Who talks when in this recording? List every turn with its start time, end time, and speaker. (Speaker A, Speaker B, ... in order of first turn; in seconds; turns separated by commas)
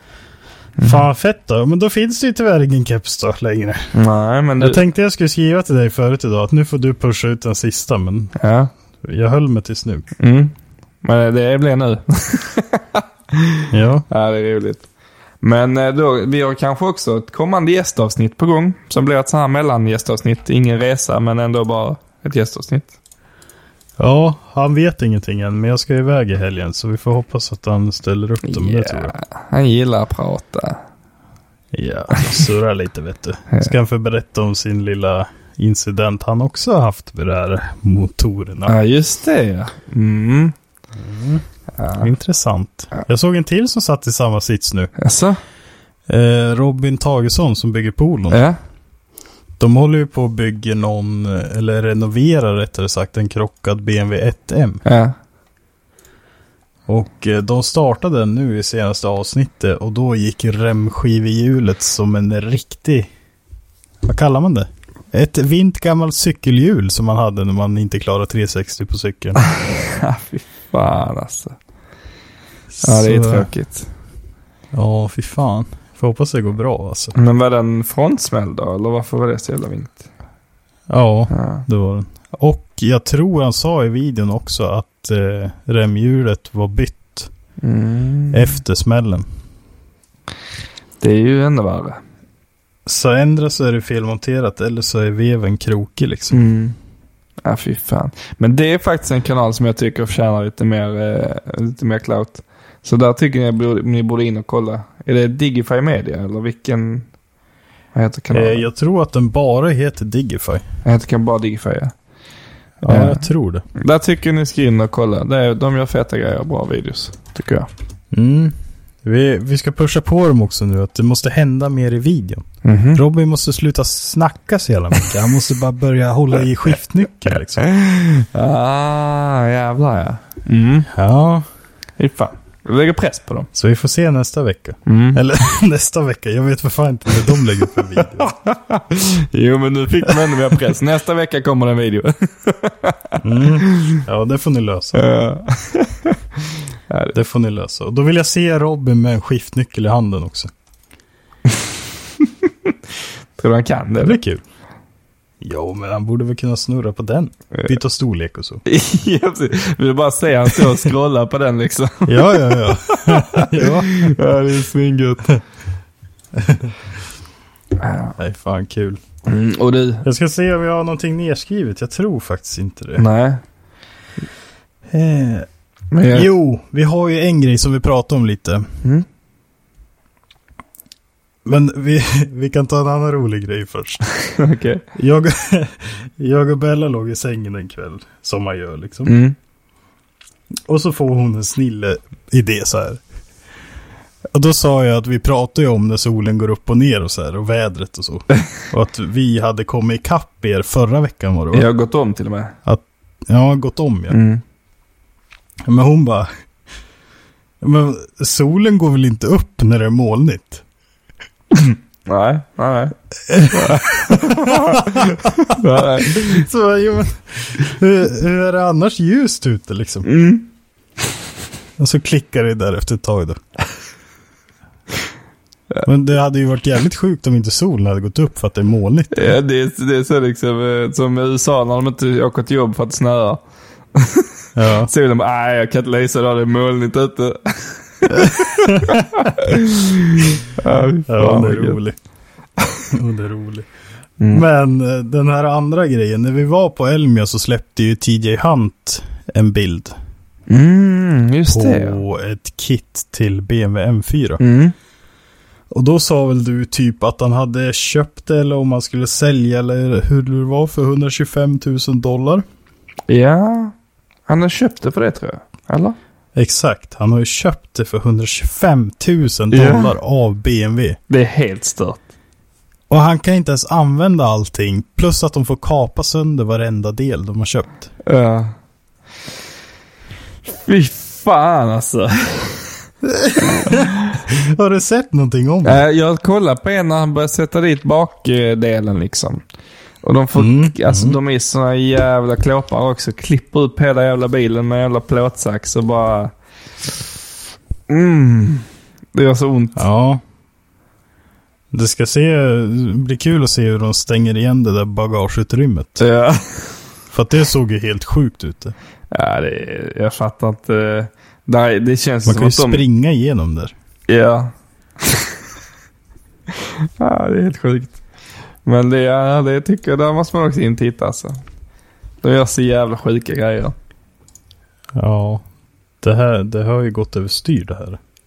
Speaker A: 0.8-3.9, Speaker B: 3.9-4.8, Speaker A: 4.6-8.3, Speaker B: 8.4-8.7, Speaker A: 9.0-10.1, Speaker B: 10.2-13.6, Speaker A: 13.7-14.1, Speaker B: 14.1-14.8, Speaker B: 15.4-22.9, Speaker A: 24.0-29.1, Speaker B: 28.4-30.8, Speaker A: 31.7-38.8, Speaker B: 38.7-40.5, Speaker A: 41.0-41.4, Speaker B: 41.8-42.1, Speaker A: 42.0-44.9, Speaker B: 45.0-45.4, Speaker A: 46.1-48.5, Speaker B: 48.3-48.6, Speaker A: 49.6-54.8, Speaker B: 54.9-55.1, Speaker A: 56.9-63.1, Speaker A: 64.0-69.4, Speaker B: 69.4-71.6, Speaker A: 72.7-73.5, Speaker B: 72.8-73.9, Speaker A: 74.7-77.2, Speaker B: 77.2-80.0, Speaker A: 80.9-87.3, Speaker B: 81.3-81.7, Speaker B: 87.6-88.6, Speaker A: 88.3-89.3, Speaker B: 91.0-92.0, Speaker A: 92.9-96.4, Speaker B: 96.3-96.8, Speaker B: 97.4-107.1, Speaker B: 107.9-108.7, Speaker A: 108.3-110.6, Speaker B: 110.8-111.9, Speaker A: 112.8-113.7, Speaker B: 112.8-117.7, Speaker A: 118.1-127.6, Speaker B: 122.6-123.0, Speaker B: 127.6-130.9, Speaker A: 130.9-131.5, Speaker B: 132.0-133.5, Speaker A: 133.6-138.3, Speaker B: 134.9-135.2, Speaker B: 138.2-144.0, Speaker A: 143.2-145.1, Speaker B: 144.9-146.2, Speaker B: 146.9-147.2, Speaker A: 147.1-150.5, Speaker B: 153.4-154.2, Speaker A: 154.0-154.4, Speaker A: 155.4-158.6, Speaker B: 158.7-165.3, Speaker A: 160.5-160.9, Speaker A: 162.1-164.2, Speaker A: 166.3-166.7, Speaker B: 167.8-168.1, Speaker A: 168.2-169.0, Speaker B: 169.3-170.1, Speaker A: 170.0-173.0, Speaker B: 173.0-173.4, Speaker A: 174.9-175.5, Speaker B: 175.9-176.3, Speaker A: 176.1-178.7, Speaker A: 181.4-184.1, Speaker B: 184.4-184.8, Speaker A: 184.9-189.2, Speaker B: 189.1-189.4, Speaker A: 190.7-193.0, Speaker A: 194.3-201.7, Speaker B: 201.5-202.6, Speaker A: 202.7-204.2, Speaker B: 204.1-204.4, Speaker A: 205.7-206.3, Speaker A: 207.6-210.6, Speaker B: 211.7-212.9, Speaker A: 213.3-220.1, Speaker B: 213.5-216.4, Speaker B: 220.1-220.5, Speaker A: 221.8-223.4, Speaker A: 225.8-229.3, Speaker B: 229.1-233.4, Speaker B: 233.9-234.3, Speaker A: 234.6-234.9, Speaker B: 234.9-241.8, Speaker A: 238.1-239.0, Speaker A: 241.1-242.0, Speaker A: 242.9-243.7, Speaker B: 244.2-244.4, Speaker A: 244.3-250.0, Speaker B: 250.5-252.0, Speaker A: 251.5-254.4, Speaker B: 254.4-254.7, Speaker A: 255.7-262.4, Speaker B: 263.1-263.7, Speaker B: 264.3-266.0, Speaker A: 266.4-271.0, Speaker B: 269.5-270.0, Speaker B: 271.1-272.1, Speaker A: 272.9-277.9, Speaker B: 278.1-278.5, Speaker B: 280.5-282.7, Speaker A: 283.0-285.8, Speaker B: 283.4-283.8, Speaker B: 285.6-289.4, Speaker B: 290.0-296.3, Speaker A: 290.4-291.2, Speaker B: 297.9-299.8, Speaker A: 299.8-300.2, Speaker A: 301.7-306.0, Speaker B: 306.0-306.8, Speaker A: 307.1-308.8, Speaker B: 309.1-312.8, Speaker A: 312.2-313.7, Speaker B: 314.1-315.3, Speaker B: 317.0-318.0, Speaker B: 318.7-321.4, Speaker B: 322.2-323.8, Speaker A: 324.9-325.4, Speaker A: 326.0-328.0